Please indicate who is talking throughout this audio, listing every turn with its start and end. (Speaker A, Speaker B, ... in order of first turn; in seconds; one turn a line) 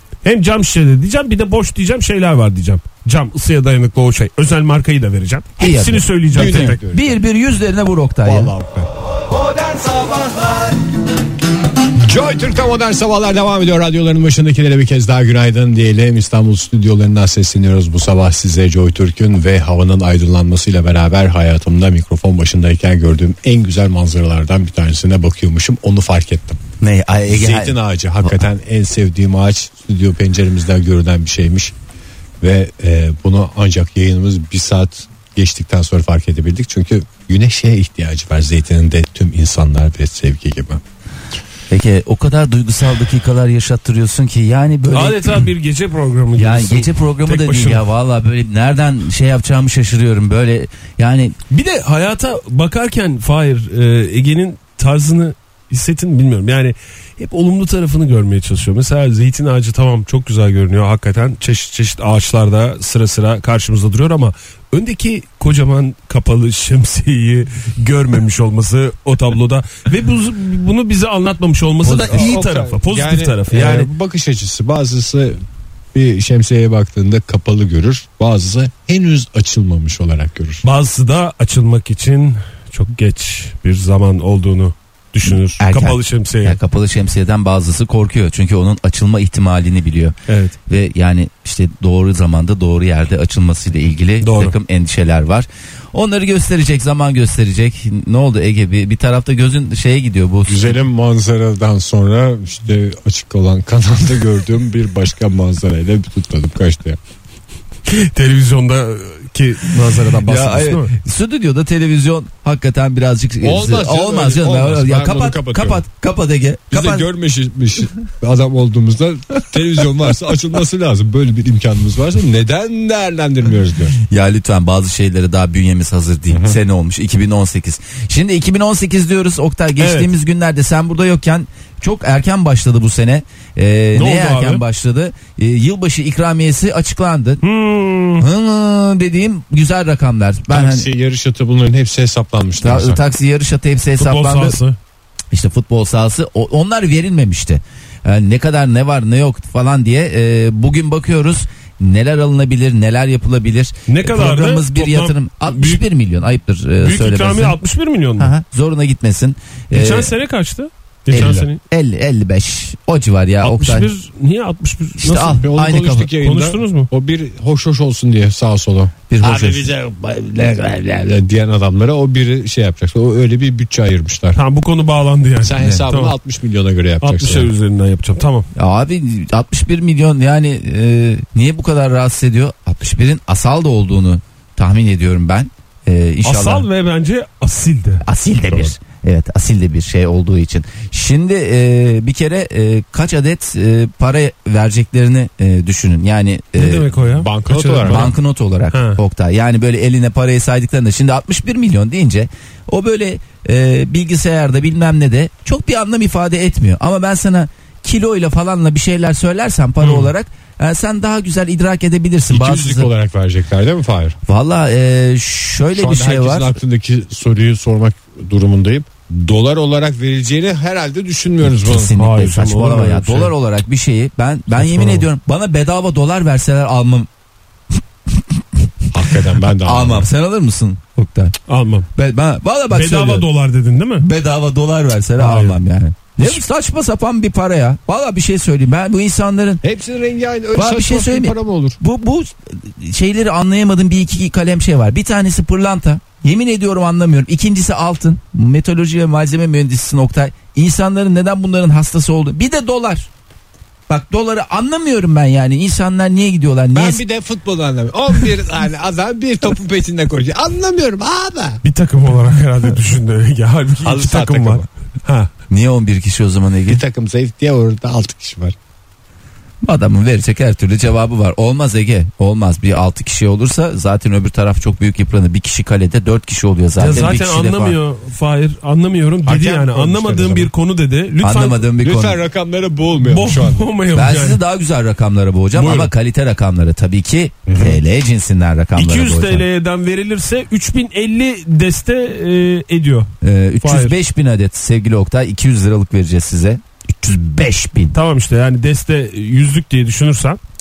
Speaker A: 0.2-6.8
Speaker B: 5.6-8.5
Speaker C: 6.3-7.2
Speaker C: 8.2-8.9
Speaker C: 11.9-26.6
Speaker B: 26.8-28.4
Speaker C: 27.3-31.8
Speaker C: 32.4-40.8
Speaker B: 41.7-45.5
Speaker A: 44.9-47.9
Speaker B: 46.4-51.4
Speaker A: 51.5-73.9
Speaker B: 71.8-72.4
Speaker C: 72.0-75.4
Speaker C: 75.9-80.6
Speaker A: 80.6-86.6
Speaker B: 85.6-90.2
Speaker A: 90.3-90.6
Speaker B: 90.7-100.8
Speaker A: 94.2-94.5
Speaker C: 100.5-107.0
Speaker A: 107.9-110.9
Speaker B: 110.2-117.1
Speaker C: 113.4-115.8
Speaker C: 116.7-124.0
Speaker B: 124.1-137.4
Speaker C: 126.3-126.6
Speaker A: 129.8-130.1
Speaker A: 133.9-134.6
Speaker A: 137.4-138.3
Speaker B: 138.2-140.9
Speaker C: 140.5-143.0
Speaker B: 142.6-144.6
Speaker A: 144.0-144.8
Speaker B: 145.3-157.6
Speaker A: 153.9-155.8
Speaker A: 156.8-158.3
Speaker B: 158.2-160.1
Speaker A: 159.7-161.6
Speaker C: 161.1-161.5
Speaker B: 161.1-163.9
Speaker A: 163.4-165.4
Speaker B: 165.0-166.1
Speaker C: 165.3-174.4
Speaker A: 166.1-166.9
Speaker B: 169.1-169.7
Speaker A: 174.3-176.2
Speaker C: 175.4-177.5
Speaker A: 177.0-178.5
Speaker B: 178.6-186.7
Speaker A: 186.2-188.0
Speaker B: 188.0-196.9
Speaker A: 196.6-198.1
Speaker C: 197.1-198.1
Speaker B: 197.9-212.9
Speaker A: 198.7-199.0
Speaker A: 209.8-210.1
Speaker C: 212.3-214.2
Speaker B: 214.3-216.6
Speaker C: 215.7-221.9
Speaker B: 221.4-227.1
Speaker A: 222.0-223.3
Speaker A: 224.6-225.1
Speaker C: 228.9-230.1
Speaker B: 229.6-231.3
Speaker A: 231.5-231.9
Speaker B: 231.9-233.3
Speaker A: 232.7-234.1
Speaker B: 234.0-239.6
Speaker A: 235.2-235.6
Speaker C: 239.6-241.8
Speaker B: 240.6-253.1
Speaker B: 253.9-257.0
Speaker C: 256.7-261.6
Speaker A: 261.6-265.3
Speaker C: 263.8-264.7
Speaker B: 265.5-266.8
Speaker C: 266.7-268.6
Speaker B: 269.6-277.8
Speaker A: 276.8-281.6
Speaker C: 279.2-280.5
Speaker B: 281.2-282.2
Speaker C: 281.8-283.7
Speaker A: 283.0-284.4
Speaker B: 283.9-289.4
Speaker A: 285.5-285.9
Speaker C: 287.5-287.8
Speaker A: 288.8-293.1
Speaker B: 293.2-298.0
Speaker A: 293.6-293.9
Speaker A: 297.9-300.4